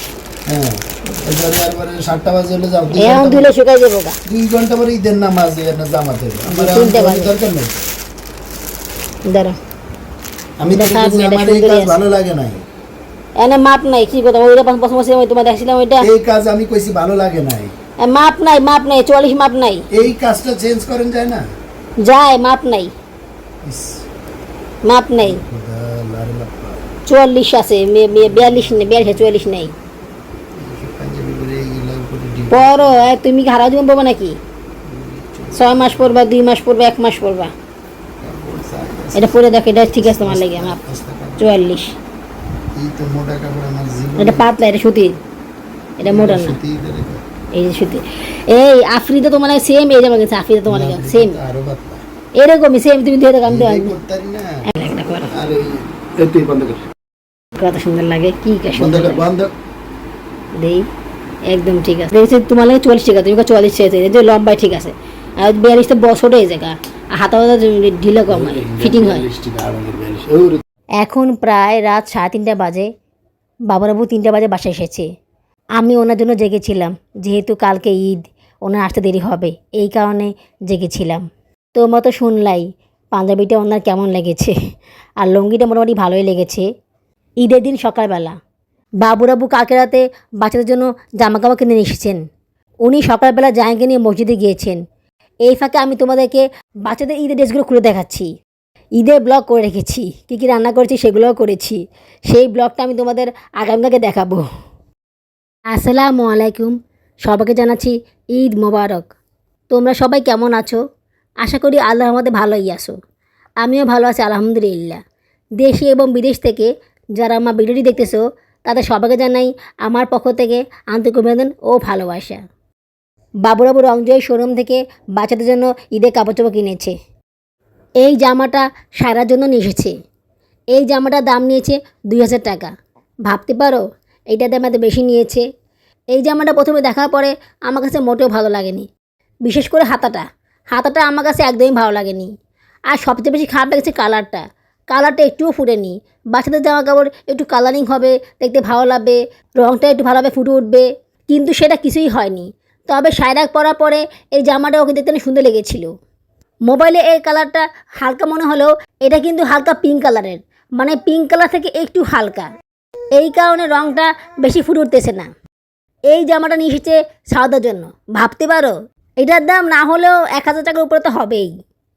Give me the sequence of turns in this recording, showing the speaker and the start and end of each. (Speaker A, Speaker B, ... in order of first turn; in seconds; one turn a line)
Speaker A: 0.5-3.5
Speaker B: 3.0-4.2
Speaker A: 4.3-7.8
Speaker B: 6.5-7.3
Speaker B: 9.3-9.6
Speaker A: 10.6-12.6
Speaker B: 10.7-12.0
Speaker B: 13.4-16.0
Speaker A: 16.0-17.7
Speaker B: 18.0-19.9
Speaker A: 19.9-21.4
Speaker B: 22.0-22.9
Speaker A: 23.6-24.0
Speaker B: 24.8-25.4
Speaker A: 25.2-26.9
Speaker B: 27.1-29.7
Speaker A: 28.3-29.1
Speaker A: 30.6-33.0
Speaker B: 32.5-34.4
Speaker A: 34.9-36.2
Speaker B: 35.5-37.5
Speaker A: 38.2-41.5
Speaker B: 39.1-40.8
Speaker B: 41.4-41.9
Speaker A: 42.7-44.5
Speaker B: 44.2-45.1
Speaker B: 46.0-46.6
Speaker A: 46.0-47.2
Speaker B: 47.5-51.4
Speaker A: 50.7-52.0
Speaker B: 52.4-53.9
Speaker A: 53.4-54.6
Speaker B: 54.7-55.3
Speaker A: 55.3-56.8
Speaker B: 57.6-59.2
Speaker A: 58.8-59.5
Speaker B: 60.6-60.8
Speaker B: 61.5-69.2
Speaker A: 68.3-70.6
Speaker B: 71.0-72.9
Speaker B: 73.7-75.1
Speaker B: 75.8-84.5
Speaker B: 85.2-86.7
Speaker B: 87.4-88.3
Speaker B: 89.0-92.2
Speaker B: 92.8-94.8
Speaker B: 95.5-98.3
Speaker B: 99.0-104.4
Speaker B: 105.7-109.1
Speaker B: 109.7-110.8
Speaker B: 111.4-113.0
Speaker B: 113.6-115.0
Speaker B: 115.6-122.4
Speaker B: 123.5-126.9
Speaker B: 128.0-129.9
Speaker B: 130.7-132.7
Speaker B: 133.3-135.4
Speaker B: 136.1-138.9
Speaker B: 139.4-142.3
Speaker B: 142.9-155.9
Speaker B: 156.7-162.5
Speaker B: 163.2-165.3
Speaker B: 166.1-171.5